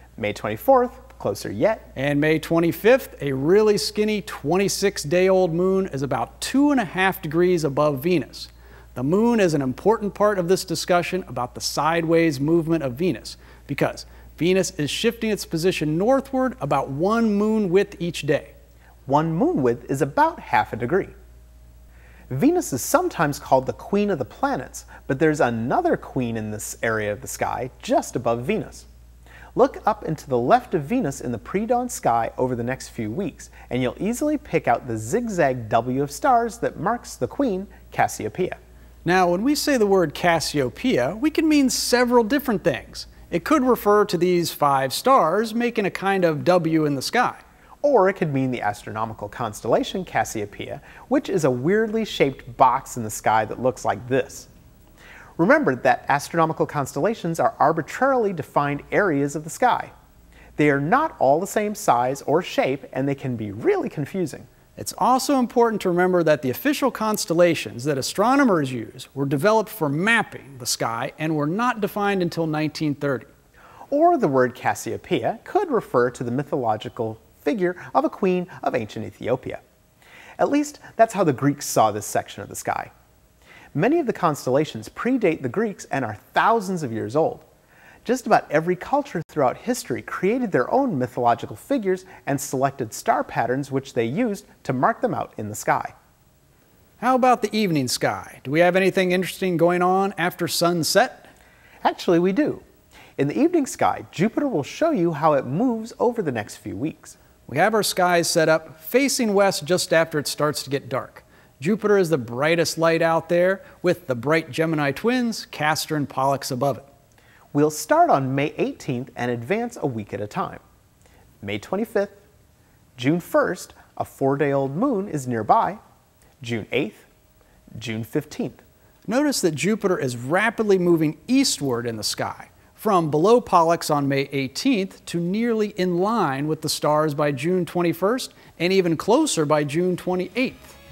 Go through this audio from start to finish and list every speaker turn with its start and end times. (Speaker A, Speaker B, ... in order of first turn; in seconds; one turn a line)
Speaker A: 0.2-1.9
Speaker B: 1.9-18.5
Speaker A: 19.1-21.1
Speaker A: 22.3-28.9
Speaker A: 29.5-38.6
Speaker B: 39.0-47.4
Speaker A: 47.8-54.5
Speaker A: 55.4-59.9
Speaker A: 60.6-64.5
Speaker B: 64.8-73.3
Speaker A: 73.9-79.6
Speaker A: 80.4-82.9
Speaker A: 83.7-87.5
Speaker A: 88.0-95.9
Speaker B: 97.0-101.3
Speaker A: 101.8-102.6
Speaker A: 103.2-107.2
Speaker B: 107.5-116.9
Speaker A: 117.5-120.6
Speaker A: 121.4-122.2
Speaker A: 123.0-125.8
Speaker A: 126.4-127.1
Speaker A: 127.8-128.6
Speaker B: 129.1-140.8